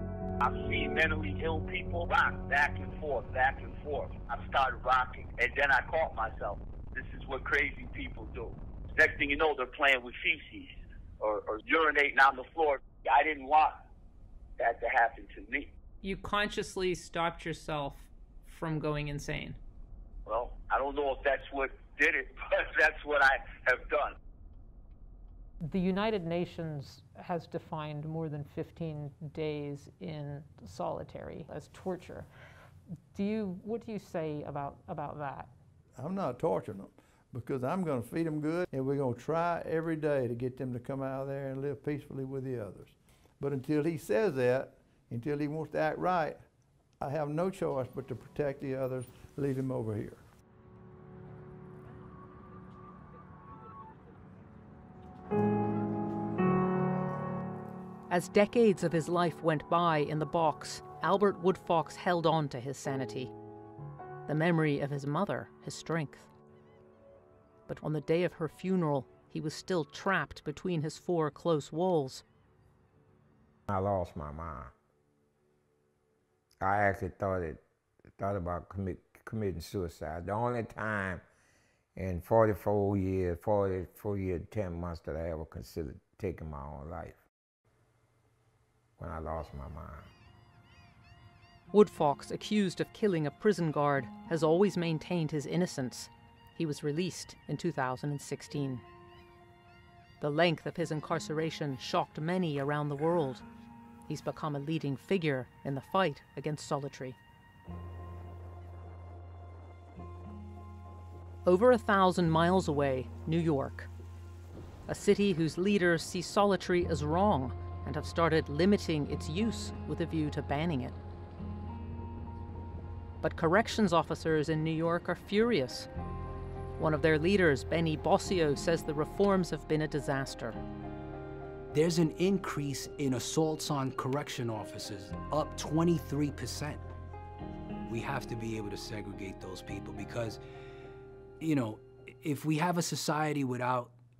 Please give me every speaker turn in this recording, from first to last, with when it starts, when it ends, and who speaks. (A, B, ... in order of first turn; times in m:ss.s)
0:00.4-0:13.8 A
0:14.6-0:15.7 A
0:16.0-0:18.1 B
0:18.8-0:19.6 B
0:20.2-0:24.1 A
0:25.6-0:32.3 B
0:33.1-0:35.5 B
0:36.0-0:46.4 C
0:47.0-0:50.2 C
0:58.1-1:03.3 D
1:04.2-1:06.3 D
1:07.7-1:12.2 D
1:13.7-1:14.7 E
1:16.6-1:17.6 E
1:18.2-1:21.2 E
1:22.0-1:27.2 E
1:29.0-1:30.1 E
1:31.7-1:38.8 D
1:40.2-1:43.4 D
1:44.1-1:47.2 D
1:51.4-1:53.9 D
1:54.9-2:01.0 D
2:03.2-2:05.9 D
2:06.8-2:10.6 D
2:11.7-2:16.8 F
2:17.9-2:20.4 F
2:21.4-2:23.9 F